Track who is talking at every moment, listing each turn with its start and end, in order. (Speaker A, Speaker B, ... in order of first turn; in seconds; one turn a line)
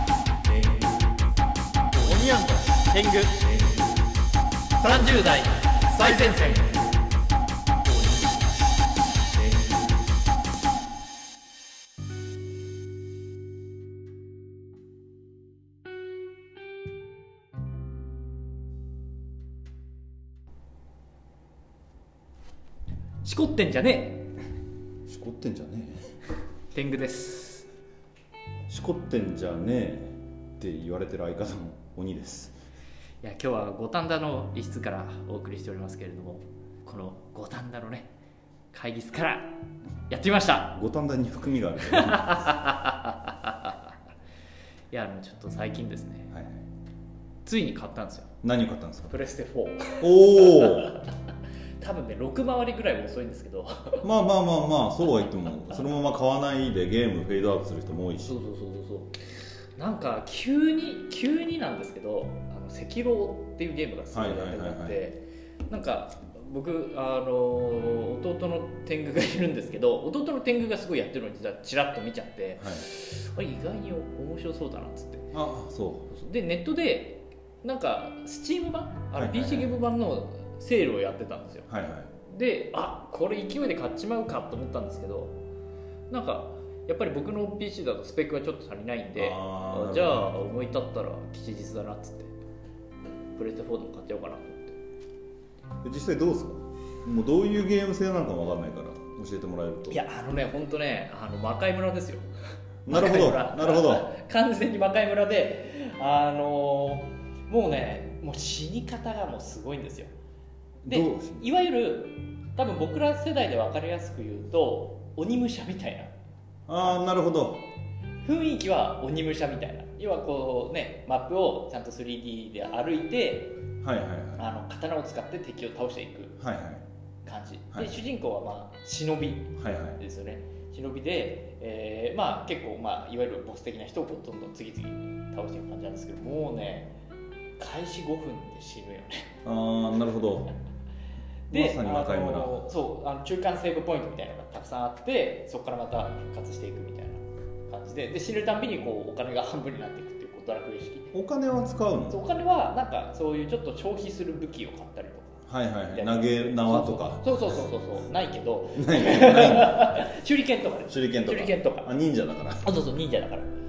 Speaker A: 0.5-0.9
Speaker A: 1.9-2.2
Speaker B: 2.0-3.5
Speaker A: 3.4-3.8
Speaker B: 4.8-5.2
Speaker A: 4.8-6.8
Speaker B: 5.9-6.5
Speaker A: 7.9-8.3
Speaker A: 23.2-24.3
Speaker B: 25.1-26.1
Speaker A: 26.7-27.6
Speaker B: 28.7-32.5
Speaker A: 33.2-38.1
Speaker A: 38.7-39.6
Speaker A: 40.1-40.7
Speaker B: 40.7-42.5
Speaker A: 41.9-43.9
Speaker A: 44.9-46.3
Speaker B: 46.3-46.6
Speaker A: 47.4-48.3
Speaker B: 48.4-49.1
Speaker A: 49.1-51.1
Speaker B: 50.0-50.9
Speaker A: 51.8-54.0
Speaker B: 54.0-58.4
Speaker A: 58.2-59.2
Speaker A: 59.8-75.3
Speaker B: 64.1-65.0
Speaker B: 72.6-72.8
Speaker B: 75.3-76.1
Speaker A: 76.1-81.7
Speaker B: 79.1-79.7
Speaker B: 81.7-82.1
Speaker A: 82.2-85.3
Speaker A: 86.1-92.3
Speaker B: 89.2-90.3
Speaker A: 93.3-94.8
Speaker B: 95.8-100.0
Speaker A: 99.9-102.3
Speaker B: 102.8-104.1
Speaker A: 102.9-110.1
Speaker B: 110.8-111.5
Speaker A: 110.9-116.1
Speaker B: 116.7-117.6
Speaker A: 118.2-123.5
Speaker B: 123.8-124.4
Speaker A: 124.4-126.4
Speaker B: 126.4-126.8
Speaker A: 127.2-136.9
Speaker B: 127.7-128.0
Speaker B: 129.6-130.0
Speaker A: 137.6-139.3
Speaker B: 139.4-140.5
Speaker A: 141.5-151.1
Speaker B: 141.5-142.7
Speaker B: 151.1-152.2
Speaker A: 152.1-161.9
Speaker B: 155.5-157.6
Speaker B: 158.8-160.1
Speaker B: 160.9-162.7
Speaker A: 162.6-163.5